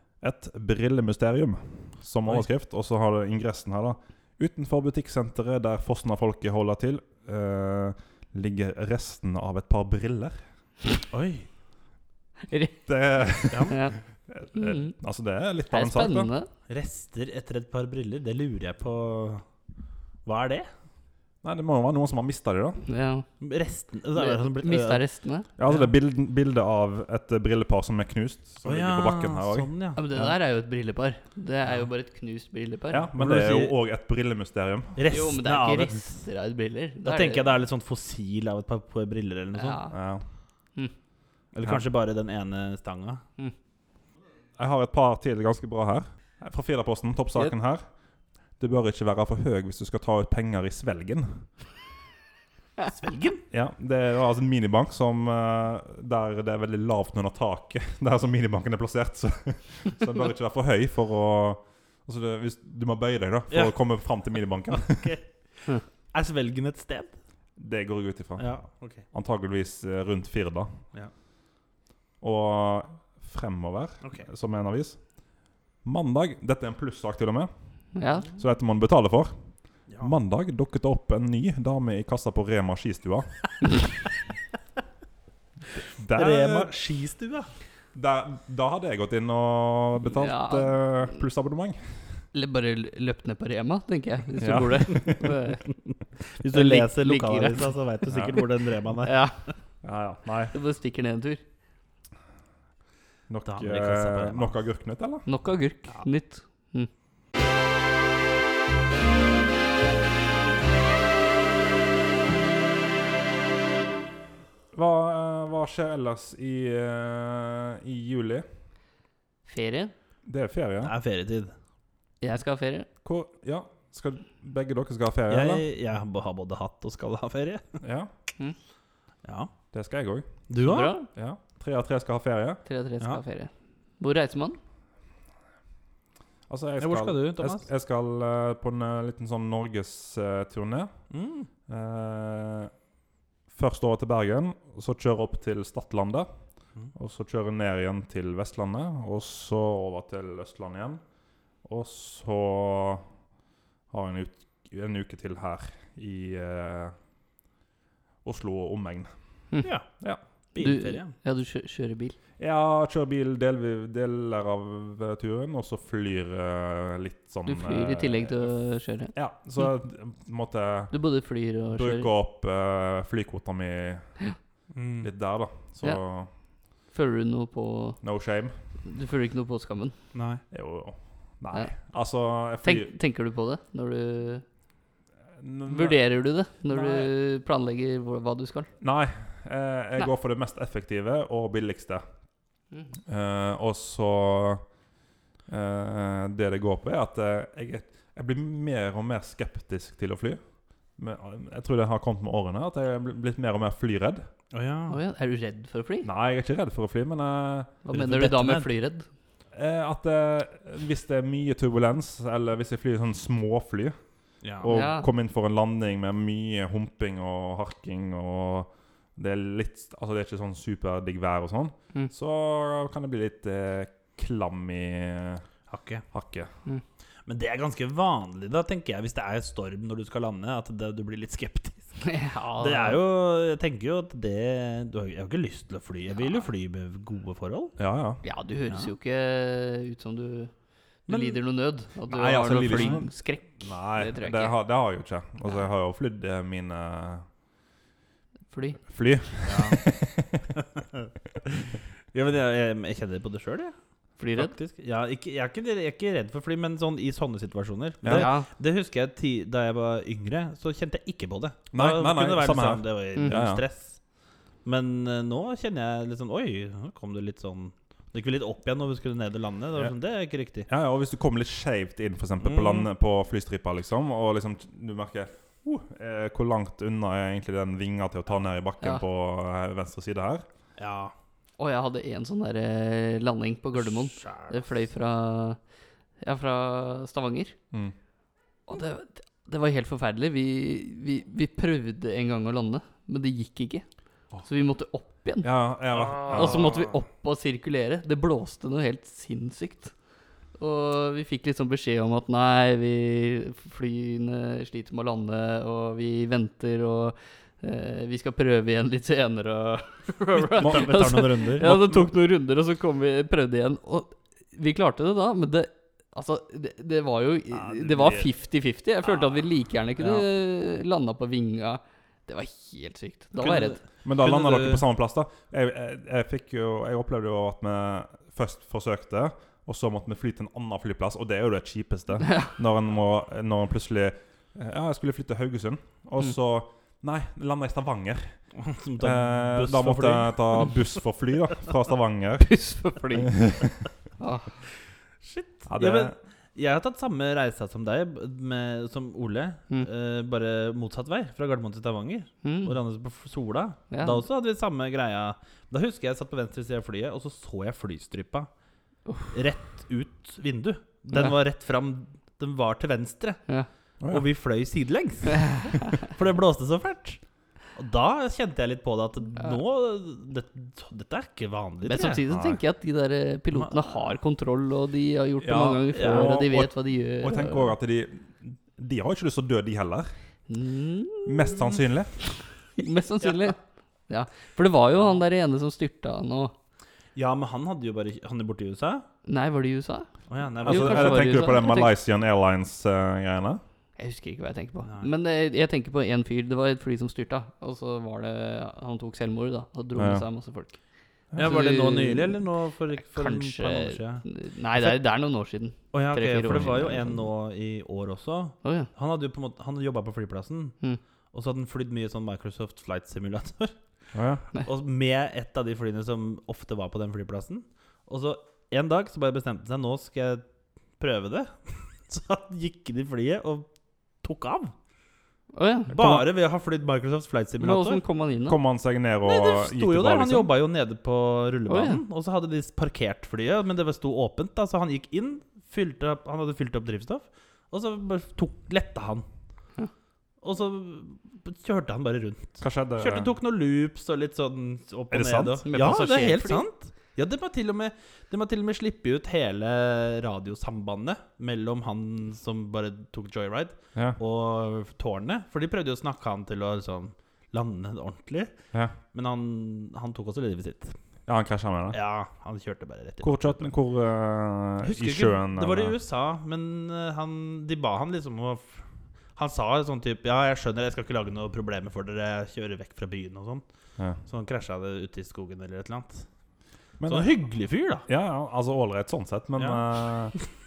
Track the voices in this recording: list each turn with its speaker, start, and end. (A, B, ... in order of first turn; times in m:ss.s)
0:00.2-0:10.4 A
0:11.1-0:11.5 B
0:12.5-0:12.9 C
0:12.9-0:16.3 A
0:13.5-0:13.8 B
0:13.7-0:14.0 C
0:14.5-0:15.0 C
0:15.7-0:16.5 C
0:16.7-0:19.4 B
0:20.2-0:20.7 B
0:21.4-0:22.9 A
0:22.9-0:23.2 C
0:23.4-0:25.0 B
0:24.2-0:25.5 C
0:25.6-0:29.7 A
0:28.6-0:30.0 B
0:30.0-0:33.1 C
0:32.9-0:35.0 A
0:33.2-0:33.7 B
0:35.0-0:36.2 B
0:35.1-0:37.4 C
0:37.0-0:39.8 B
0:39.6-0:40.0 C
0:39.9-0:40.2 A
0:41.5-0:43.2 B
0:44.6-0:47.8 A
0:48.6-0:51.5 A
0:52.9-0:53.4 B
0:53.5-1:05.1 A
1:03.5-1:07.2 B
1:07.6-1:10.8 A
1:08.4-1:09.1 B
1:12.2-1:17.8 A
1:17.9-1:18.3 C
1:18.4-1:23.7 A
1:19.9-1:20.1 B
1:26.0-1:26.7 A
1:26.2-1:27.5 B
1:27.9-1:32.2 A
1:30.2-1:31.1 C
1:32.3-1:35.6 C
1:34.4-1:35.3 A
1:36.4-1:39.4 B
1:36.5-1:37.8 C
1:38.1-1:38.4 A
1:39.0-1:39.5 C
1:39.8-1:40.6 A
1:40.5-1:41.4 C
1:43.3-1:45.3 A
1:43.5-1:44.5 B
1:45.3-1:46.9 C
1:54.7-1:58.5 A
1:59.4-1:59.9 C
2:00.3-2:00.9 A
2:00.8-2:01.5 B
2:02.2-2:02.9 C
2:03.0-2:05.6 A
2:05.3-2:07.8 B
2:07.8-2:08.1 A
2:09.2-2:09.5 B
2:09.7-2:10.5 A
2:10.5-2:11.0 B
2:10.6-2:11.1 C
2:11.1-2:12.6 A
2:12.6-2:14.6 C
2:16.5-2:21.0 A
2:16.8-2:17.6 B
2:21.1-2:21.5 B
2:21.7-2:22.7 A
2:23.5-2:26.3 A
2:27.0-2:31.0 A
2:31.6-2:33.1 A
2:33.9-2:37.0 A
2:38.2-2:39.4 A
2:39.6-2:39.9 B
2:40.5-2:41.1 B
2:40.6-2:42.2 C
2:42.4-2:51.0 A
2:47.5-2:49.1 C
2:50.9-2:52.1 C
2:51.7-2:54.2 A
2:54.7-2:55.1 B
2:55.0-2:56.3 A
2:56.8-2:58.0 C
2:58.0-2:58.6 A
2:58.8-3:00.0 C
3:00.1-3:00.4 B
3:00.5-3:02.9 A
3:02.6-3:04.4 C
3:05.4-3:07.1 A
3:05.7-3:08.7 C
3:08.8-3:12.2 A
3:13.1-3:14.8 A
3:15.5-3:24.2 A
3:24.5-3:25.0 B
3:24.9-3:26.1 C
3:26.0-3:27.8 A
3:27.8-3:29.1 C
3:27.9-3:28.7 B
3:29.5-3:45.4 A
3:34.4-3:34.7 B
3:34.7-3:35.1 C
3:45.7-3:46.0 B
3:46.1-3:46.5 A
3:47.3-3:57.8 B
3:52.0-3:53.0 C
3:56.2-3:56.5 C
3:57.8-3:58.2 A
3:58.2-4:04.6 C
4:01.1-4:01.4 B
4:02.1-4:07.3 A
4:02.6-4:03.0 B
4:08.5-4:08.8 C
4:08.9-4:10.5 A
4:09.5-4:09.9 B
4:10.8-4:13.7 B
4:14.2-4:14.6 C
4:14.4-4:24.0 B
4:18.0-4:18.3 A
4:18.1-4:18.5 C
4:21.7-4:23.6 A
4:24.6-4:30.7 B
4:30.7-4:40.4 A
4:32.4-4:32.9 B
4:40.8-4:41.1 B
4:41.6-4:45.6 C
4:43.8-4:44.7 B
4:46.2-4:47.6 C
4:48.7-4:53.9 C
4:54.4-4:55.5 C
4:55.4-4:56.8 A
4:56.0-4:56.6 B
4:56.3-4:59.9 C
5:00.6-5:23.8 C
5:10.4-5:12.1 B
5:10.6-5:10.9 A
5:17.7-5:18.3 B
5:23.4-5:24.8 B
5:24.0-5:38.5 A
5:32.3-5:32.5 C
5:38.6-5:40.9 B
5:39.0-5:42.6 A
5:42.4-5:43.6 C
5:43.2-5:43.7 A
5:44.2-5:44.6 C
5:45.2-5:58.5 B
5:45.7-5:46.2 A
5:52.4-5:52.7 C
5:53.9-5:54.2 C
5:59.1-5:59.3 C
5:59.3-6:03.4 B
6:04.1-6:07.2 B
6:05.4-6:05.9 C
6:07.7-6:12.2 B
6:11.8-6:17.7 C
6:12.2-6:12.6 A
6:13.5-6:13.9 B
6:15.4-6:20.1 A
6:15.9-6:16.5 B
6:20.5-6:21.8 C
6:21.3-6:22.2 A
6:22.3-6:26.5 C
6:27.2-6:29.1 B
6:29.2-6:30.1 C
6:30.3-6:31.3 B
6:30.6-6:31.9 C
6:30.6-6:33.6 A
6:34.0-6:40.8 C
6:34.8-6:35.1 B
6:40.0-6:40.3 A
6:41.3-6:42.4 C
6:41.3-6:44.2 B
6:43.0-6:47.2 C
6:45.9-6:50.8 B
6:48.6-6:48.9 C
6:51.3-6:53.8 B
6:54.1-6:54.4 A
6:54.6-7:00.4 B
7:01.0-7:03.7 B
7:04.2-7:04.7 B
7:05.5-7:06.0 C
7:05.9-7:08.0 B
7:06.0-7:06.3 A
7:07.6-7:08.6 C
7:08.5-7:10.5 A
7:09.2-7:19.3 B
7:11.7-7:12.0 C
7:20.4-7:38.5 B
7:22.6-7:23.3 A
7:25.1-7:25.6 A
7:25.7-7:26.7 C
7:39.1-7:41.0 B
7:41.3-7:42.0 A
7:41.9-7:43.7 B
7:43.2-7:46.0 A
7:44.8-7:48.8 B
7:49.4-7:53.6 B
7:54.2-7:56.3 B
7:57.0-7:57.3 A
7:57.1-7:58.1 B
7:58.1-8:00.4 A
7:59.6-8:00.4 B